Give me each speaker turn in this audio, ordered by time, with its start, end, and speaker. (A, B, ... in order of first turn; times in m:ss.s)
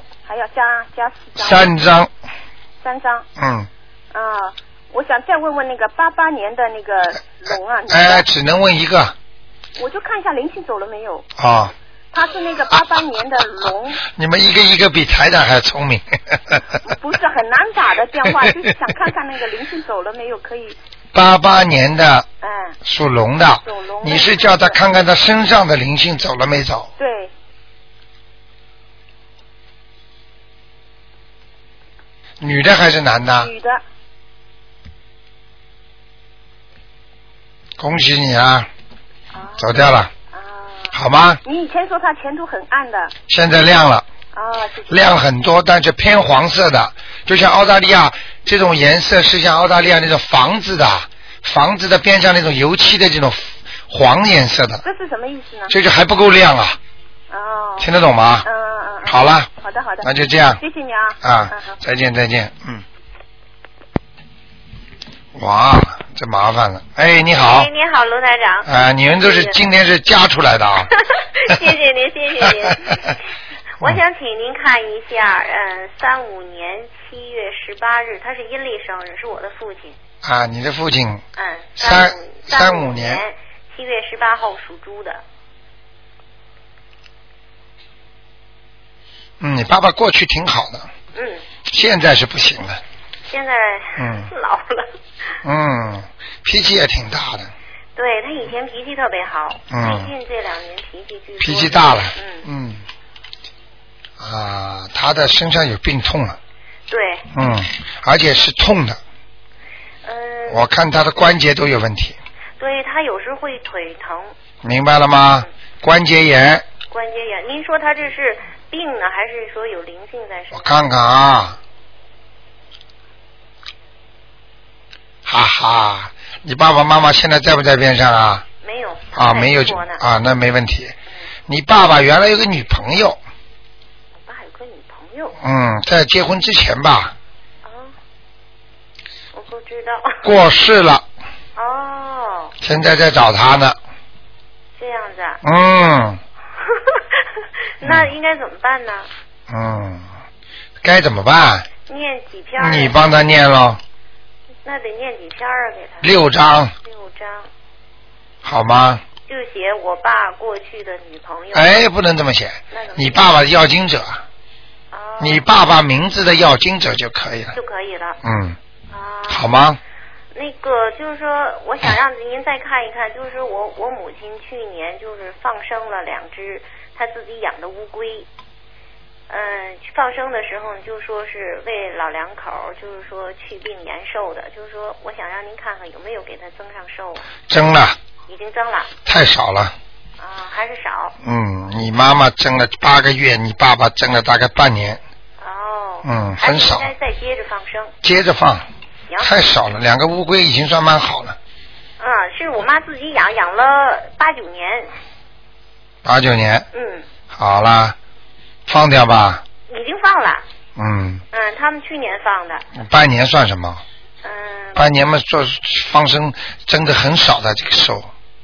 0:00.2-0:01.7 A
0:01.4-0:02.1 B
0:02.8-0:03.2 A
0:03.4-0:03.7 B
0:04.1-0:08.2 A
0:07.9-0:09.1 B
0:09.8-0:11.3 A
0:11.4-0:11.7 B
0:12.1-0:14.0 A
0:14.0-0:16.6 B
0:16.8-0:20.8 A
0:18.3-0:18.6 B
0:21.1-0:22.3 B
0:22.4-0:22.8 A
0:22.8-0:26.9 B
0:23.6-0:24.8 A
0:27.0-0:27.3 A
0:32.4-0:33.5 B
0:33.4-0:33.8 A
0:37.8-0:38.7 B
0:39.3-0:39.7 A
0:39.6-0:40.1 B
0:40.3-0:40.9 A
0:40.9-0:41.4 B
0:41.4-0:43.1 A
0:43.3-0:44.0 B
0:44.3-0:45.0 A
0:44.9-0:54.8 B
0:54.8-0:55.7 A
0:55.7-0:56.8 B
0:57.3-0:57.9 A
0:57.8-0:58.5 B
0:58.4-1:01.8 A
0:59.0-0:59.5 B
1:00.0-1:00.6 B
1:01.2-1:02.8 B
1:05.3-1:07.7 B
1:07.3-1:08.7 C
1:08.6-1:10.9 B
1:09.2-1:09.5 C
1:11.0-1:13.1 C
1:12.8-1:13.1 B
1:13.8-1:20.0 C
1:20.2-1:21.2 B
1:21.4-1:25.2 C
1:21.8-1:23.2 B
1:29.4-1:30.9 B
1:31.1-1:31.4 C
1:31.7-1:32.8 B
1:33.3-1:34.9 C
1:34.0-1:34.3 B
1:35.4-1:37.5 B
1:38.0-1:42.4 C
1:39.7-1:40.1 B
1:41.4-1:42.8 B
1:44.2-1:46.4 B
1:46.9-1:47.3 C
1:47.3-1:49.0 B
1:50.0-1:50.7 C
1:50.5-1:52.2 B
1:52.6-1:54.3 C
1:54.6-1:56.6 B
1:56.9-2:00.8 C
2:00.5-2:01.6 B
2:05.2-2:08.4 B
2:08.6-2:10.0 C
2:09.1-2:11.0 B
2:11.5-2:13.2 B
2:14.1-2:15.4 C
2:15.4-2:17.1 B
2:17.6-2:17.9 C
2:19.3-2:20.2 C
2:20.2-2:21.0 B
2:21.6-2:22.5 C
2:22.6-2:23.8 B
2:24.7-2:25.4 C
2:25.4-2:26.2 B
2:26.7-2:27.0 C
2:27.8-2:29.1 C
2:27.8-2:28.1 B
2:29.5-2:30.1 B
2:30.8-2:31.7 B
2:31.9-2:33.0 C
2:32.6-2:33.8 B
2:34.6-2:36.2 C
2:36.0-2:36.7 B
2:36.8-2:37.5 C
2:38.4-2:39.0 B
2:39.3-2:41.9 C
2:41.5-2:44.2 B
2:42.7-2:43.3 C
2:44.9-2:45.4 C
2:45.2-2:47.6 B
2:47.5-2:48.2 C
2:48.2-2:48.6 B
2:48.9-2:49.5 C
2:49.3-2:49.8 B
2:50.3-2:58.3 C
2:59.3-3:07.3 C
3:07.5-3:08.0 B
3:08.3-3:09.0 C
3:09.0-3:09.7 B
3:10.2-3:11.1 C
3:11.2-3:15.0 B
3:15.4-3:17.9 C
3:16.0-3:16.9 B
3:18.0-3:18.6 B
3:19.1-3:19.5 C
3:19.2-3:21.4 B
3:22.0-3:24.9 C
3:26.0-3:26.7 B
3:26.7-3:27.0 C
3:27.3-3:28.0 B
3:28.7-3:29.4 B
3:29.7-3:30.4 C
3:30.8-3:31.2 B
3:31.3-3:32.6 C
3:32.7-3:33.8 B
3:34.2-3:34.8 C
3:34.8-3:38.1 B